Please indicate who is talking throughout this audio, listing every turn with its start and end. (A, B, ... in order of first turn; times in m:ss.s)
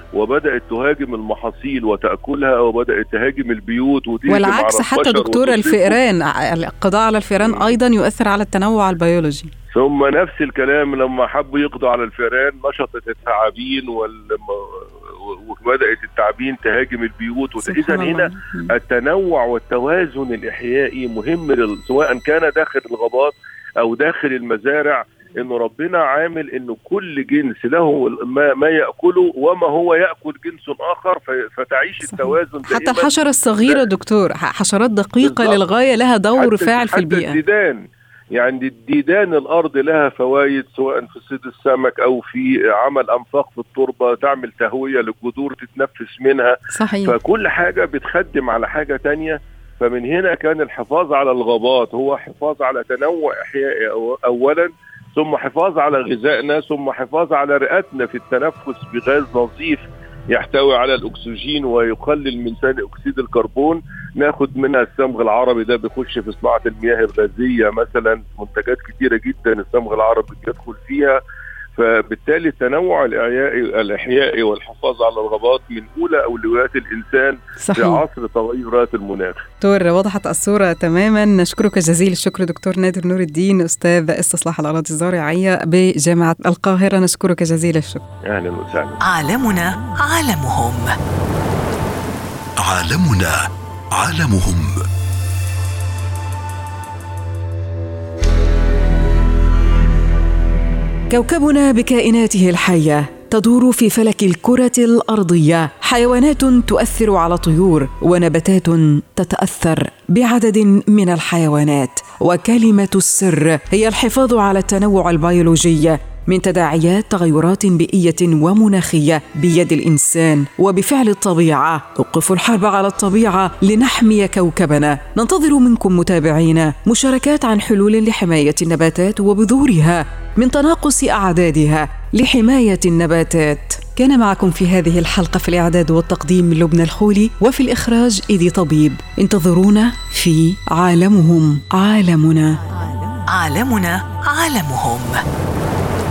0:00.1-0:06.0 A
0:04.3-0:09.5 B
0:07.4-0:07.8 A
0:09.7-0:33.1 A
0:17.6-0:18.7 B
0:32.0-0:37.4 B
0:35.2-0:35.6 A
0:36.4-1:11.2 A
0:46.7-0:47.2 B
1:11.8-1:19.5 A
1:17.6-1:18.0 B
1:19.6-1:28.0 B
1:28.3-1:29.0 A
1:29.0-1:30.9 C
1:32.6-1:34.8 D
1:41.1-2:22.6 B
2:23.3-2:25.2 C